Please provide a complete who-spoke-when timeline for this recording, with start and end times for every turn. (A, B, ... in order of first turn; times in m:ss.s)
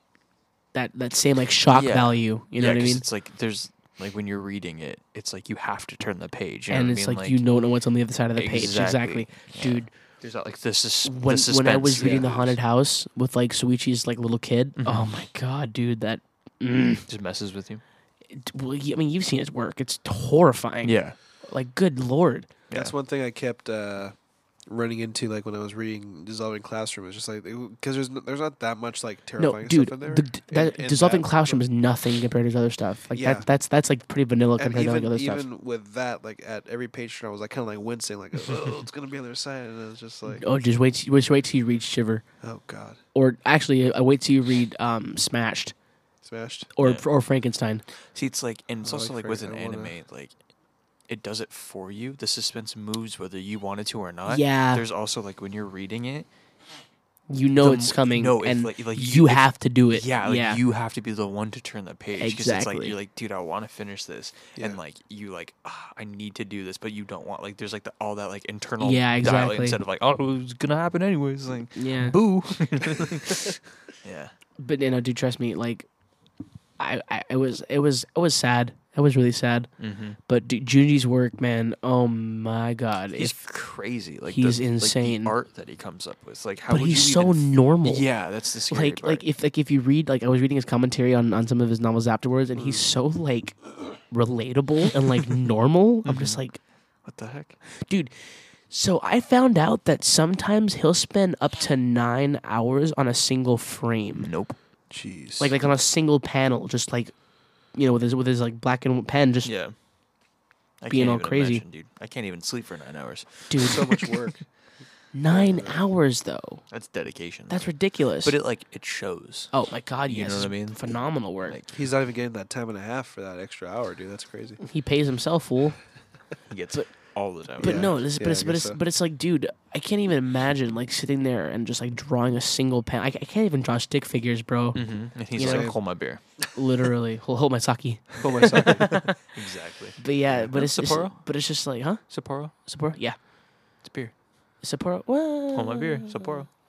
0:00.7-0:03.0 A
0:01.7-0:07.4 B
0:06.7-0:09.9 A
0:08.4-0:12.3 B
0:11.0-0:17.0 A
0:12.0-0:12.6 C
0:14.8-0:15.2 B
0:17.1-0:17.8 B
0:18.3-0:22.5 A
0:20.8-0:21.2 B
0:22.7-0:24.2 C
0:24.7-0:31.6 C
0:29.4-0:35.4 A
0:33.1-0:33.5 C
0:34.6-0:40.4 C
0:40.3-0:42.2 A
0:42.4-0:43.0 C
0:43.1-0:45.8 A
0:46.2-0:46.7 C
0:46.8-0:47.8 A
0:48.1-0:50.3 B
0:48.8-0:49.9 C
0:51.1-0:56.3 B
0:54.3-0:54.8 A
0:57.3-1:00.6 A
0:57.6-1:14.3 B
1:02.2-1:03.0 A
1:08.8-1:09.8 A
1:11.8-1:12.2 A
1:14.6-1:15.9 A
1:16.8-1:19.7 A
1:19.8-1:20.2 B
1:20.3-1:23.4 A
1:23.2-1:29.2 B
1:24.3-1:25.4 A
1:26.7-1:28.1 A
1:28.7-1:36.6 A
1:36.0-1:36.4 B
1:37.0-1:37.6 B
1:37.9-1:38.1 A
1:38.7-1:44.3 A
1:44.2-1:44.6 B
1:44.9-1:45.5 C
1:45.4-1:47.1 A
1:47.7-1:49.5 A
1:49.4-1:49.7 B
1:50.8-1:54.1 B
1:50.9-1:51.6 A
1:53.5-1:54.0 A
1:53.6-1:54.4 C
1:55.1-1:56.6 A
1:55.3-1:55.8 C
1:56.7-1:59.5 B
1:57.5-1:58.4 A
1:59.5-2:01.6 A
2:00.1-2:01.7 B
2:01.7-2:04.6 C
2:04.6-2:05.8 A
2:06.5-2:07.9 B
2:07.6-2:15.8 A
2:07.6-2:08.8 C
2:14.7-2:16.2 B
2:15.4-2:15.8 C
2:16.6-2:19.2 A
2:18.2-2:19.0 C
2:18.7-2:20.0 B
2:20.0-2:23.2 A
2:20.5-2:21.2 B
2:22.1-2:22.5 B
2:23.8-2:24.1 B
2:24.6-2:26.3 A
2:25.5-2:26.5 B